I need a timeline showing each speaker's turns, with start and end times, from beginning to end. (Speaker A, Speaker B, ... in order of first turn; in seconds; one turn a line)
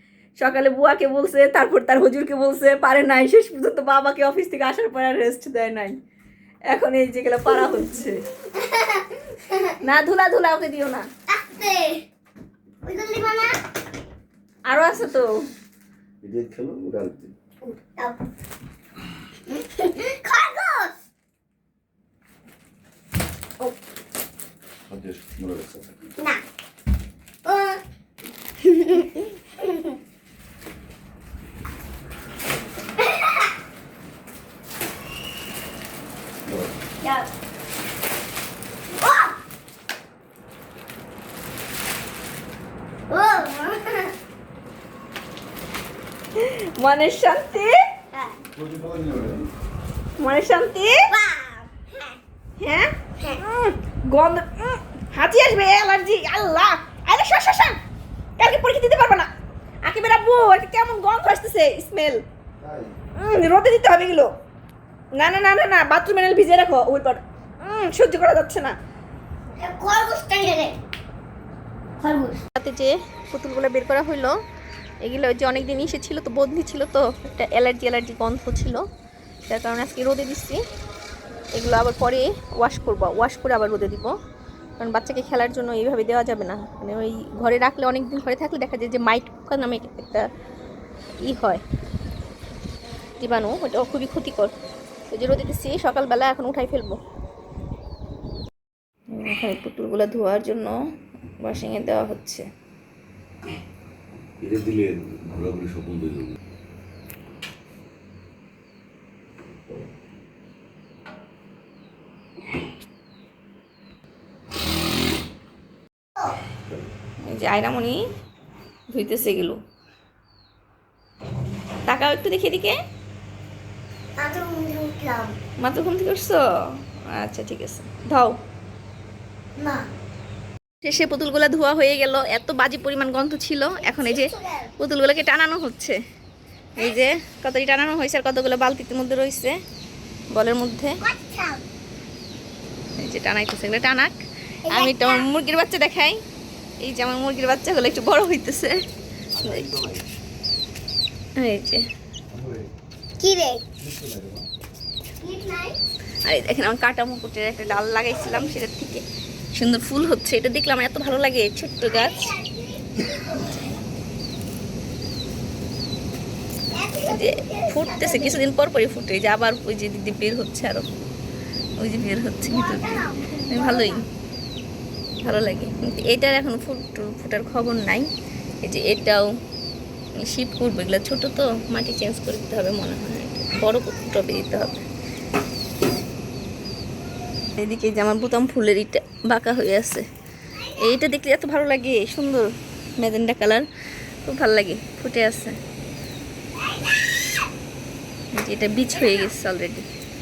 Speaker A: 0.4-6.0
Speaker A: 6.7-8.2
Speaker B: 8.5-9.8
Speaker A: 9.8-11.1
Speaker B: 11.3-12.0
Speaker B: 12.8-13.6
Speaker A: 14.7-15.3
Speaker C: 16.2-17.3
Speaker B: 17.6-18.2
Speaker B: 19.5-21.0
Speaker C: 24.9-25.9
Speaker B: 26.2-26.4
Speaker B: 27.4-27.8
Speaker B: 28.6-30.0
Speaker B: 33.0-33.5
Speaker B: 37.0-37.3
Speaker B: 38.9-39.3
Speaker B: 43.1-44.1
Speaker A: 46.4-47.8
Speaker B: 48.1-48.4
Speaker A: 50.2-51.1
Speaker B: 51.1-52.2
Speaker A: 52.6-57.8
Speaker A: 58.4-59.3
Speaker A: 59.8-62.2
Speaker A: 63.1-64.3
Speaker A: 65.2-68.7
Speaker B: 69.6-70.8
Speaker B: 72.0-72.4
Speaker A: 72.5-74.4
Speaker A: 75.0-78.8
Speaker A: 79.5-80.6
Speaker A: 81.5-84.1
Speaker A: 84.8-90.3
Speaker A: 91.2-91.6
Speaker A: 93.2-94.5
Speaker A: 95.1-97.0
Speaker A: 99.1-100.8
Speaker A: 101.4-102.5
Speaker C: 104.4-106.3
Speaker A: 117.2-118.0
Speaker A: 118.9-119.6
Speaker A: 121.9-122.8
Speaker B: 124.2-125.3
Speaker A: 125.6-126.4
Speaker A: 127.1-128.3
Speaker B: 129.6-129.8
Speaker A: 130.8-136.0
Speaker B: 133.8-134.7
Speaker A: 136.8-139.6
Speaker A: 140.3-141.0
Speaker B: 141.0-141.6
Speaker A: 143.0-146.2
Speaker B: 144.7-145.2
Speaker A: 146.8-148.8
Speaker C: 149.4-150.1
Speaker A: 149.4-149.7
Speaker A: 151.4-151.8
Speaker B: 153.2-153.6
Speaker C: 154.0-154.4
Speaker B: 155.2-155.8
Speaker A: 156.2-162.3
Speaker B: 161.9-163.8
Speaker B: 166.7-168.4
Speaker A: 167.0-170.9
Speaker A: 171.8-174.0
Speaker B: 172.5-174.0
Speaker A: 175.2-178.1
Speaker A: 178.6-179.3
Speaker A: 180.2-184.8
Speaker A: 187.6-190.0
Speaker A: 190.7-193.6
Speaker A: 194.2-195.6
Speaker A: 198.3-199.8